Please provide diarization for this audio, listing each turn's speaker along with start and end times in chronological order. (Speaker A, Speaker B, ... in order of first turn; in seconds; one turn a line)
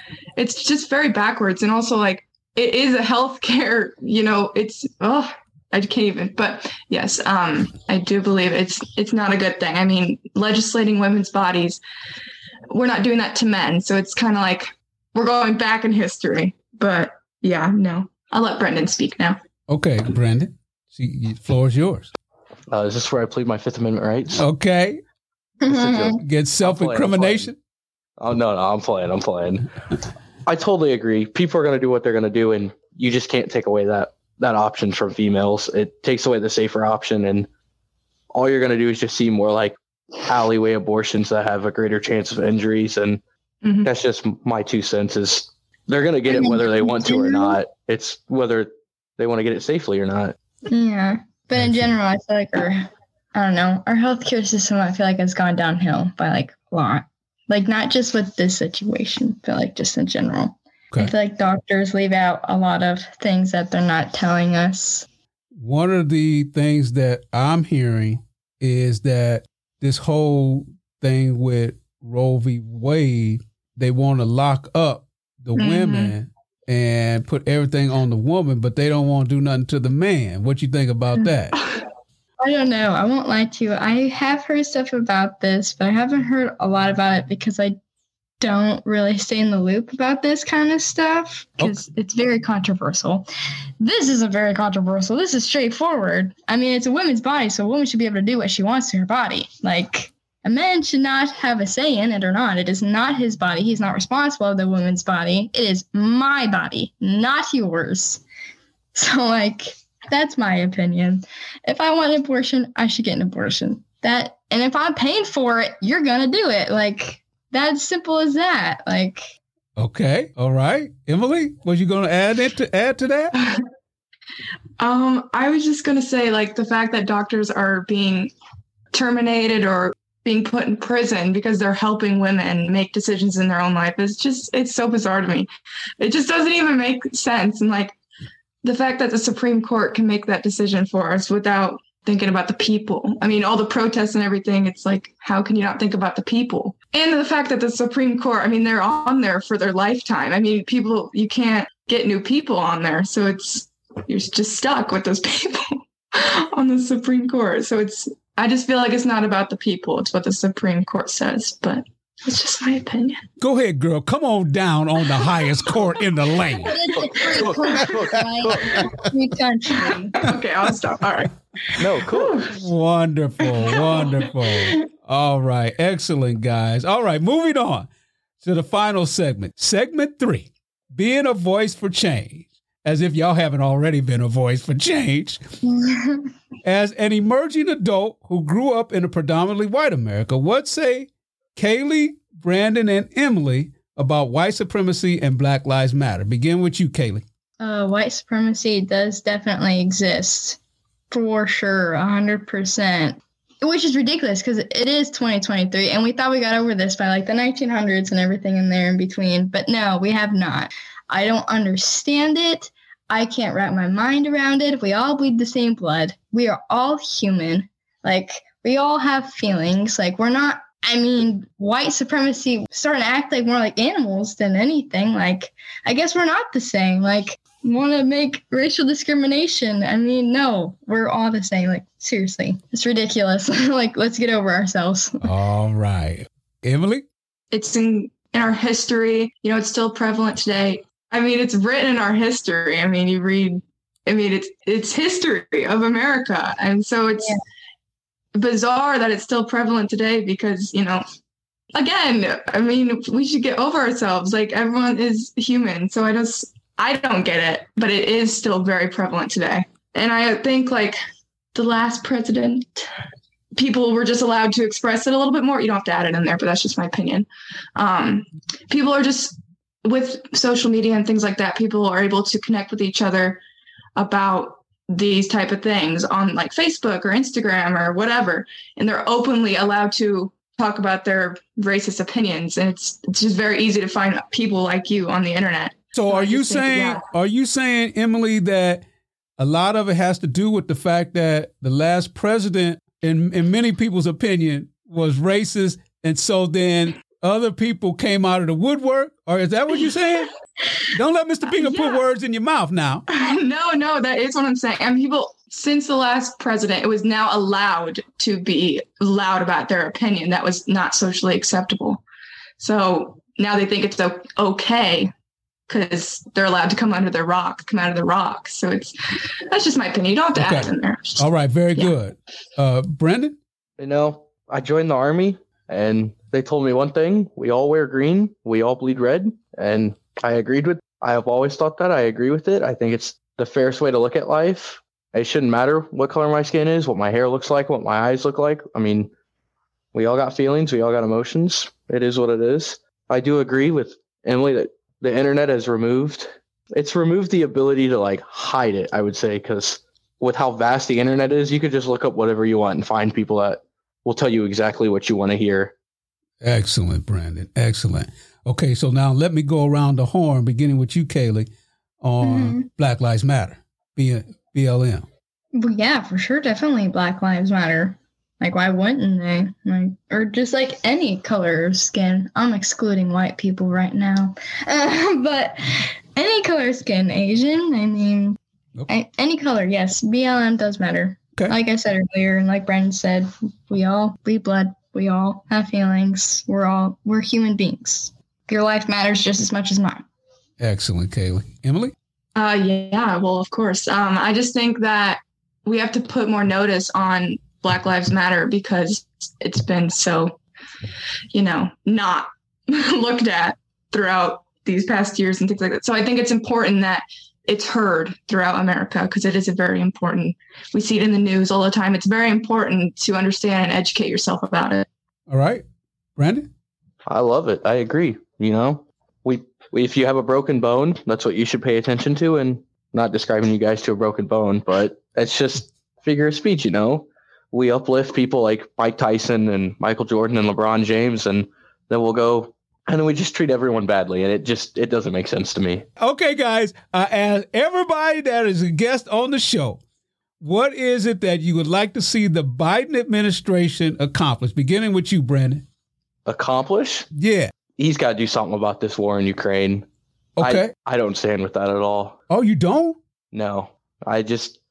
Speaker A: 0.4-11.8
Speaker A: 12.7-19.4
Speaker B: 19.7-22.1
Speaker C: 22.7-24.4
Speaker B: 24.3-25.0
Speaker D: 25.6-26.2
Speaker C: 25.7-27.5
Speaker B: 26.2-27.6
Speaker C: 28.2-29.7
Speaker C: 30.5-37.5
Speaker C: 38.3-43.2
Speaker A: 43.6-43.9
Speaker C: 43.9-50.4
Speaker D: 46.3-47.6
Speaker D: 50.7-65.1
Speaker B: 51.6-51.9
Speaker B: 65.5-81.6
Speaker A: 75.6-76.2
Speaker D: 82.4-87.8
Speaker D: 88.4-93.3
Speaker D: 93.8-108.2
Speaker D: 108.9-119.3
Speaker B: 119.8-123.3
Speaker A: 124.8-128.3
Speaker A: 128.9-135.5
Speaker A: 136.0-138.0
Speaker A: 138.6-163.2
Speaker B: 163.4-167.0
Speaker D: 166.7-170.1
Speaker C: 167.3-168.7
Speaker B: 167.7-168.9
Speaker A: 169.8-172.6
Speaker C: 171.8-172.4
Speaker B: 172.5-177.9
Speaker A: 173.4-174.8
Speaker B: 178.4-185.4
Speaker D: 185.7-186.3
Speaker B: 186.6-197.2
Speaker D: 197.6-200.6
Speaker D: 201.1-235.3
Speaker B: 235.2-237.1
Speaker A: 237.5-247.4
Speaker A: 248.3-251.0
Speaker A: 251.7-261.0
Speaker A: 261.5-262.9
Speaker A: 263.6-273.4
Speaker A: 274.0-287.1
Speaker B: 285.9-288.8
Speaker B: 289.4-300.3
Speaker B: 300.9-303.1
Speaker A: 301.6-302.0
Speaker A: 303.1-312.0
Speaker A: 312.6-315.1
Speaker A: 315.7-318.9
Speaker A: 319.5-321.2
Speaker B: 320.4-323.4
Speaker C: 323.8-339.1
Speaker C: 339.9-355.7
Speaker B: 356.4-361.5
Speaker B: 362.0-365.1
Speaker D: 362.2-362.7
Speaker D: 365.5-378.4
Speaker D: 378.9-390.1
Speaker B: 390.6-391.9
Speaker A: 392.4-400.4
Speaker A: 401.3-414.9
Speaker B: 415.3-415.6
Speaker B: 416.2-416.5
Speaker C: 417.1-435.9
Speaker B: 436.0-439.8
Speaker B: 440.4-445.6
Speaker C: 446.3-447.1
Speaker B: 447.1-447.5
Speaker C: 447.8-449.9
Speaker B: 450.4-450.7
Speaker C: 450.4-452.2
Speaker B: 452.3-453.0
Speaker C: 453.3-454.6